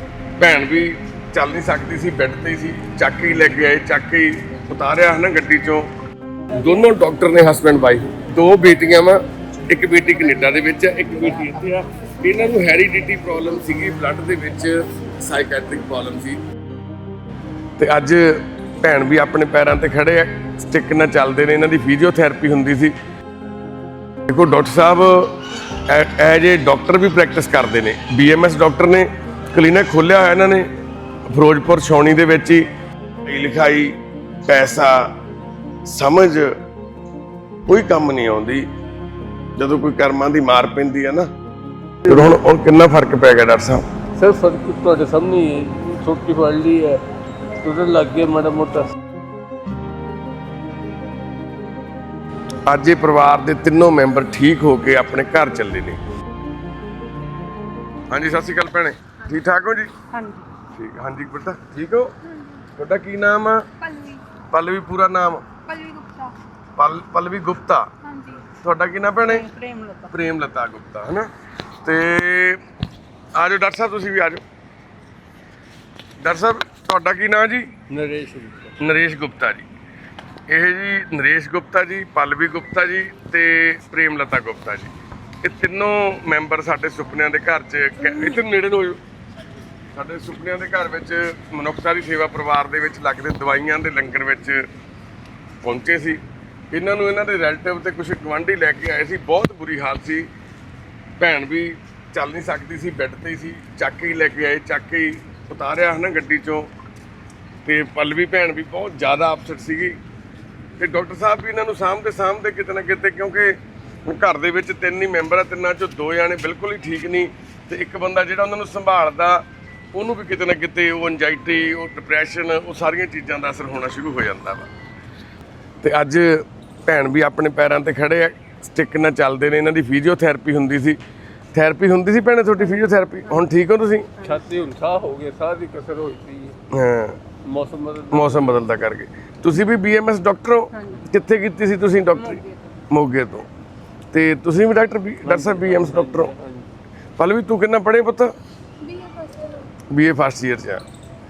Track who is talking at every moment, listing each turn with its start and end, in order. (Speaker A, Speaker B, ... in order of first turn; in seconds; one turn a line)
Speaker A: 0.4-5.8
Speaker A: 6.5-16.4
Speaker A: 17.8-22.9
Speaker A: 24.3-30.7
Speaker A: 31.3-32.7
Speaker A: 33.2-34.0
Speaker A: 34.5-35.1
Speaker A: 35.9-36.5
Speaker A: 37.7-38.6
Speaker A: 39.6-41.3
Speaker A: 42.0-43.8
Speaker B: 44.1-47.0
Speaker B: 47.6-48.9
Speaker A: 52.6-56.0
Speaker A: 58.1-59.9
Speaker C: 60.1-60.5
Speaker A: 60.7-62.1
Speaker A: 62.7-63.7
Speaker C: 63.8-64.2
Speaker A: 64.5-65.5
Speaker C: 65.6-66.3
Speaker A: 66.8-67.9
Speaker C: 68.0-68.4
Speaker A: 68.5-69.5
Speaker C: 69.2-70.1
Speaker A: 70.1-71.3
Speaker A: 71.8-72.6
Speaker A: 73.3-74.4
Speaker A: 76.2-77.7
Speaker B: 77.9-78.7
Speaker A: 78.8-79.7
Speaker A: 80.5-84.9
Speaker A: 85.4-89.0
Speaker A: 89.9-94.6
Speaker A: 95.6-100.3
Speaker A: 101.2-106.7
Speaker A: 107.6-110.0
Speaker A: 110.8-119.4
Speaker A: 119.9-124.7
Speaker A: 125.8-131.0
Speaker A: 131.5-134.1
Speaker B: 134.2-136.6
Speaker A: 136.7-137.2
Speaker B: 137.4-138.6
Speaker A: 138.1-143.5
Speaker C: 140.7-141.0
Speaker C: 142.2-142.8
Speaker A: 144.1-146.3
Speaker B: 145.2-146.7
Speaker A: 147.2-148.3
Speaker C: 148.8-149.6
Speaker A: 149.9-150.8